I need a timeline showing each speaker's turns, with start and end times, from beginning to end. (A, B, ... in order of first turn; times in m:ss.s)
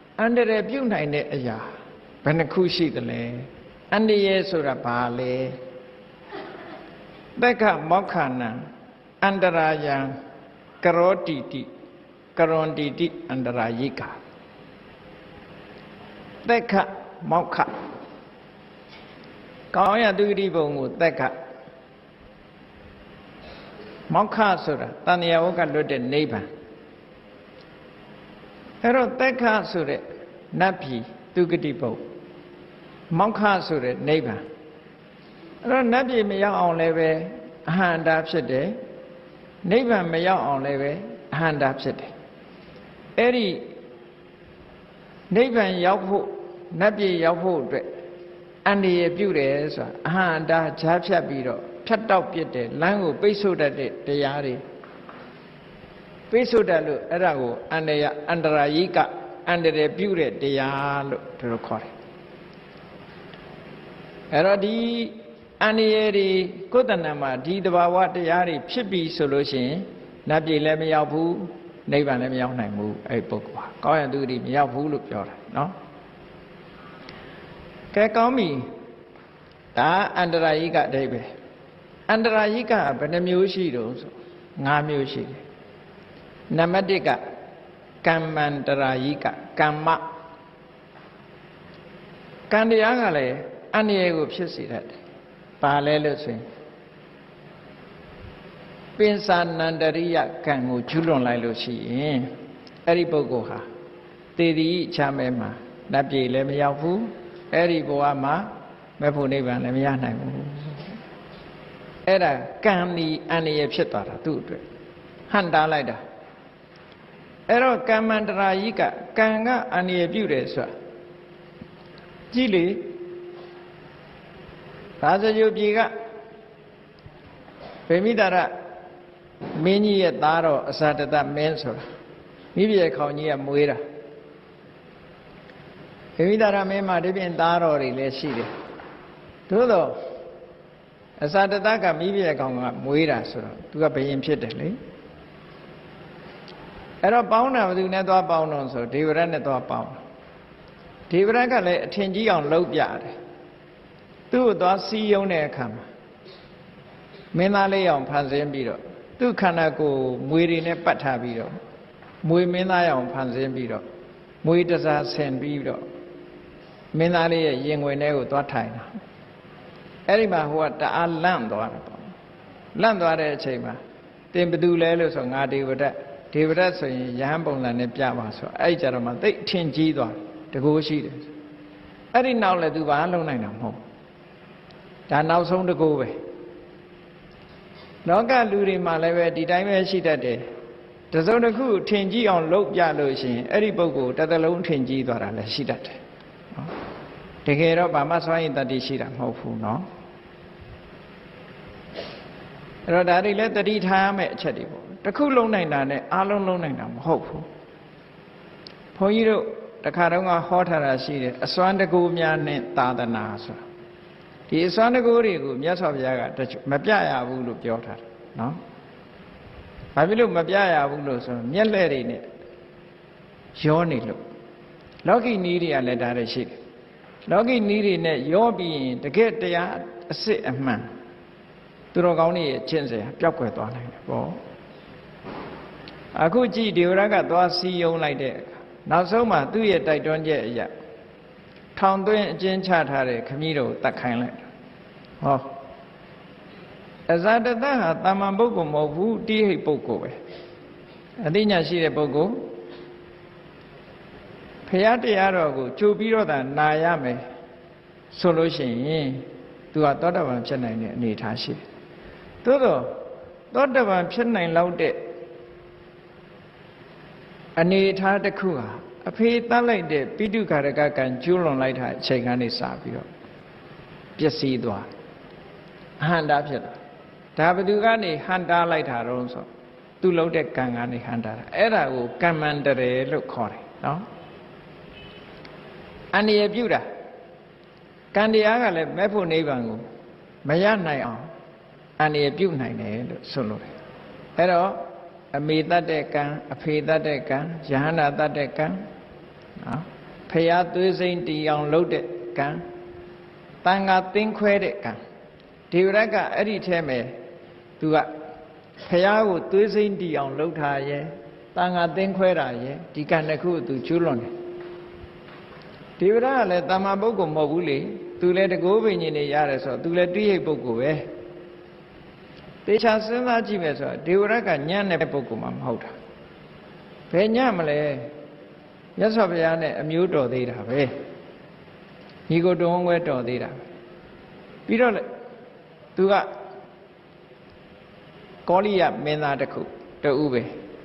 0:00.2-0:01.6 A
0:02.2-0:05.6 A
0:07.4-0:08.6 A
0:09.2-0:10.1 A
0:10.8-0:11.7 A
0:12.3-0:14.2 A
0:16.4-0:17.7 A
0:19.7-0:21.3 A
0:24.1-0:26.5 A
0:28.8-0:32.0 A
0:33.1-0:34.4 A
0:35.6-0:38.8 A
0:39.6-0:42.1 A
0:43.2-0:43.6 A
0:45.3-0:47.9 A
0:48.6-0:54.6 A
0:56.3-1:01.9 A
1:04.3-1:15.7 A
1:17.9-1:18.6 A
1:19.7-1:21.3 A
1:22.1-1:25.4 A
1:26.5-1:27.2 A
1:28.0-1:30.0 A
1:32.5-1:35.0 A
1:35.6-1:36.4 A
1:39.0-1:42.3 A
1:42.8-1:43.6 A
1:44.4-1:50.9 A
1:52.0-1:54.6 A
1:55.3-1:56.0 A
1:57.5-2:00.7 A
2:02.3-2:03.0 A
2:05.0-2:05.9 A
2:07.9-2:08.5 A
2:09.5-2:11.8 A
2:12.5-2:13.8 A
2:16.2-2:18.5 A
2:19.5-2:20.0 A
2:21.2-2:24.8 A
2:27.0-2:30.0 A
2:31.1-2:33.1 A
2:34.3-2:35.8 A
2:37.3-2:41.5 A
2:42.2-2:43.8 A
2:44.4-2:45.8 A
2:46.9-2:48.9 A
2:50.1-2:52.1 A
2:52.7-2:53.8 A
2:54.3-3:01.3 A
3:02.1-3:03.8 A
3:05.1-3:06.1 A
3:08.0-3:10.4 A
3:11.1-3:16.0 A
3:17.4-3:19.8 A
3:22.9-3:27.5 A
3:28.9-3:33.6 A
3:34.5-3:38.6 A
3:39.9-3:42.2 A
3:43.5-3:44.2 A
3:45.0-3:46.6 A
3:47.3-3:50.8 A
3:51.9-3:54.4 A
3:56.1-4:00.7 A
4:01.8-4:04.5 A
4:05.2-4:05.5 A
4:07.1-4:10.2 A
4:11.2-4:12.4 A
4:14.7-4:17.2 A
4:18.1-4:21.6 A
4:22.4-4:23.0 A
4:23.5-4:25.0 A
4:27.6-4:33.1 A
4:34.2-4:34.9 A
4:36.0-4:36.8 A
4:37.4-4:39.5 A
4:40.0-4:44.0 A
4:46.1-4:46.8 A
4:48.1-4:49.8 A
4:50.4-4:51.3 A
4:52.0-4:53.7 A
4:54.4-4:58.8 A
4:59.6-5:02.6 A
5:03.6-5:05.0 A
5:05.7-5:07.1 A
5:07.8-5:08.1 A
5:08.8-5:14.3 A
5:16.0-5:21.0 A
5:22.6-5:25.9 A
5:27.1-5:28.1 A
5:29.0-5:30.9 A
5:32.3-5:33.6 A
5:34.7-5:35.1 A
5:36.0-5:36.3 A
5:38.4-5:40.5 A